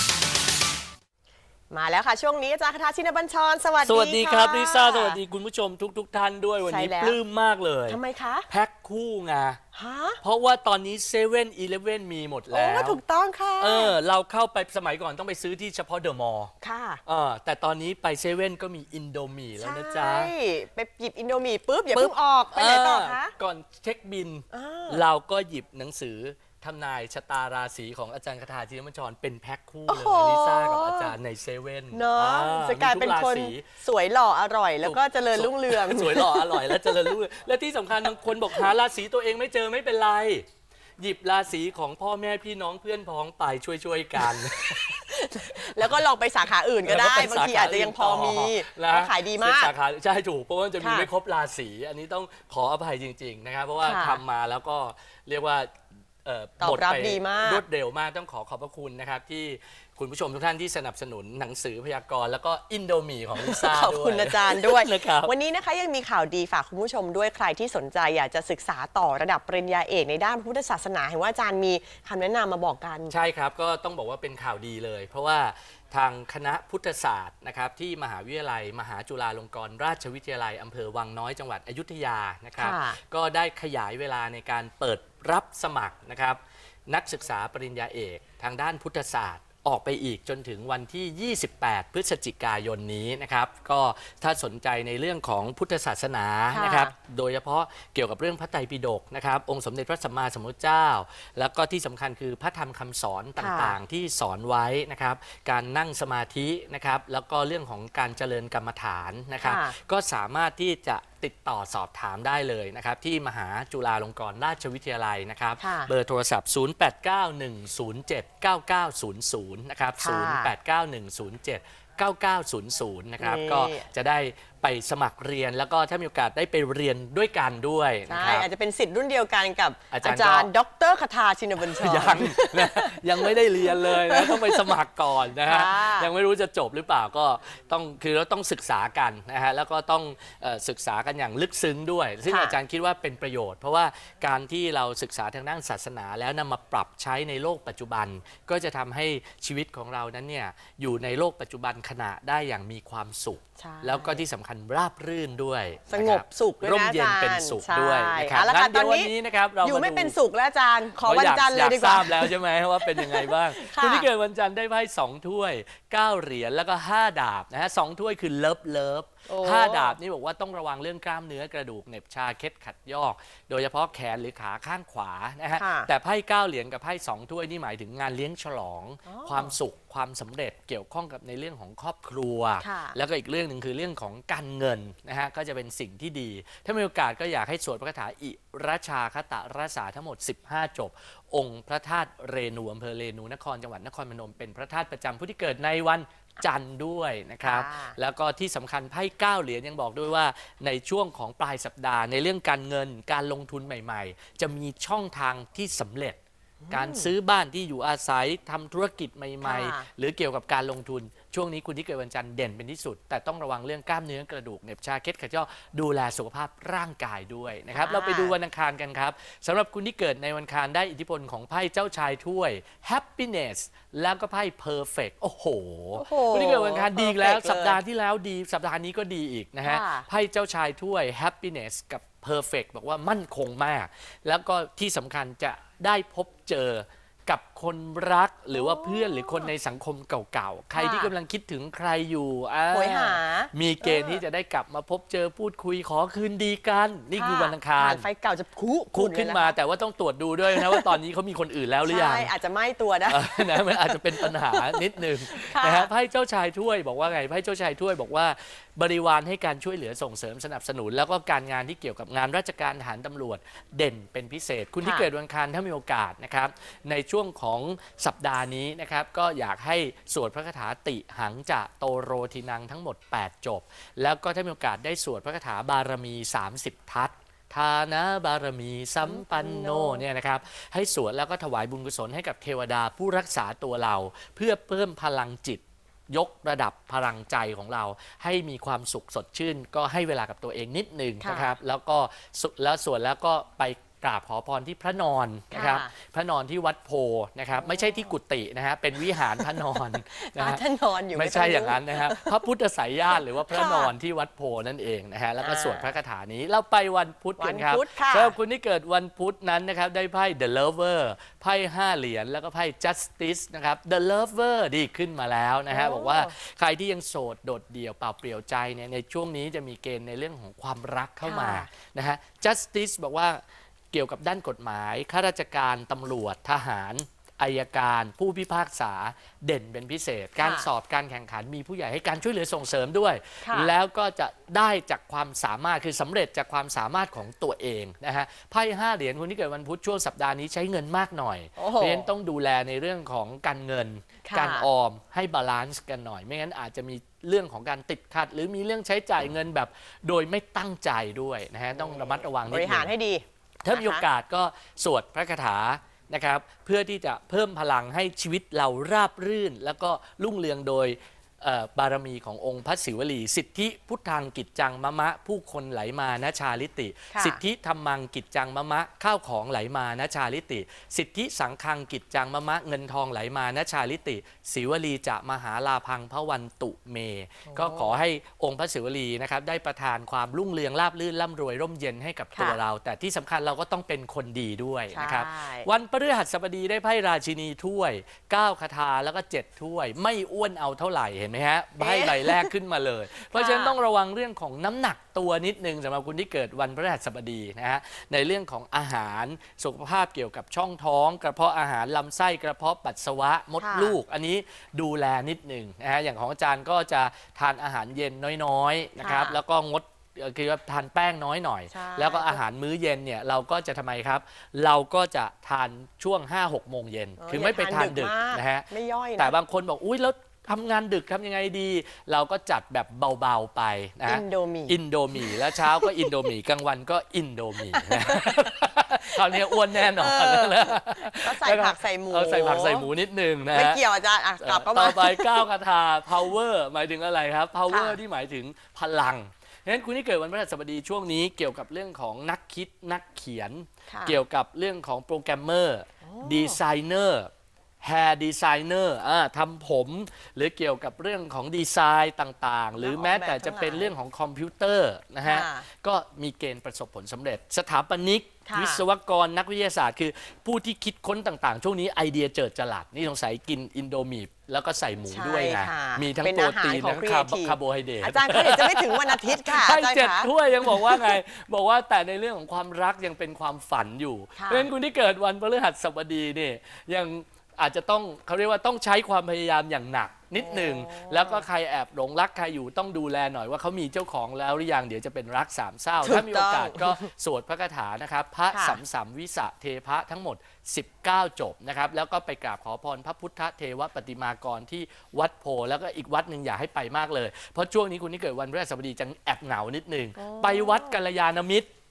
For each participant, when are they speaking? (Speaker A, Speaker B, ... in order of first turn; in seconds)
Speaker A: 1.7-5.2, 6.6-7.2, 7.9-8.5, 9.7-10.2, 12.5-13.9, 16.6-17.0, 19.6-23.3, 24.5-25.0, 29.9-31.1, 31.9-37.2, 44.6-49.7, 50.8-51.1, 53.8-54.2, 56.6-57.6, 63.4-73.1, 82.6-83.0, 96.5-96.9, 103.4-103.8, 109.4-109.8, 115.6-115.9, 120.0-120.5, 123.2-123.9, 128.1-134.8, 135.4-136.1, 142.3-142.6, 153.6-154.2, 155.9-164.1, 169.3-170.0, 175.6-175.9, 179.1-179.6, 182.6-183.0, 197.4-198.0, 206.6-207.1, 209.4-209.9, 217.7-218.4, 226.0-227.8, 229.6-230.1, 238.5-239.5, 240.8-241.1, 242.7-244.2, 247.2-249.5, 250.5-250.9, 251.9-255.9, 264.8-265.1, 279.0-280.0, 291.2-291.6, 295.5-295.9, 297.6-298.1, 299.4-302.3, 303.5-303.9, 305.4-305.9, 307.4-308.4, 315.7-316.3, 321.2-321.7, 330.4-330.7, 333.4-333.7, 341.6-342.1, 344.2-344.7, 351.7-354.1, 367.1-367.4, 377.5-377.9, 384.9-385.7, 391.8-392.5, 393.3-393.8, 403.6-404.0, 409.0-409.4, 411.7-412.4, 417.2-419.3, 424.1-426.1, 427.7-428.3, 429.3-432.9, 433.5-435.5, 437.7-438.0, 443.9-444.2, 446.1-446.6, 452.8-453.9, 455.2-455.7, 458.5-458.8, 465.1-471.2, 474.4-474.7, 480.4-481.4, 486.0-487.1, 488.5-488.8, 500.2-501.0
Speaker B: 3.8-9.6, 10.2-13.0, 13.6-16.5, 17.1-20.3, 21.9-33.7, 34.8-40.5, 41.0-45.1, 46.8-55.7, 56.2-65.3, 73.1-128.5, 129.9-130.5, 131.6-160.2, 161.0-206.2, 206.7-248.1, 248.9-252.3, 253.1-352.9, 353.6-433.8, 434.4-447.3, 447.8-501.7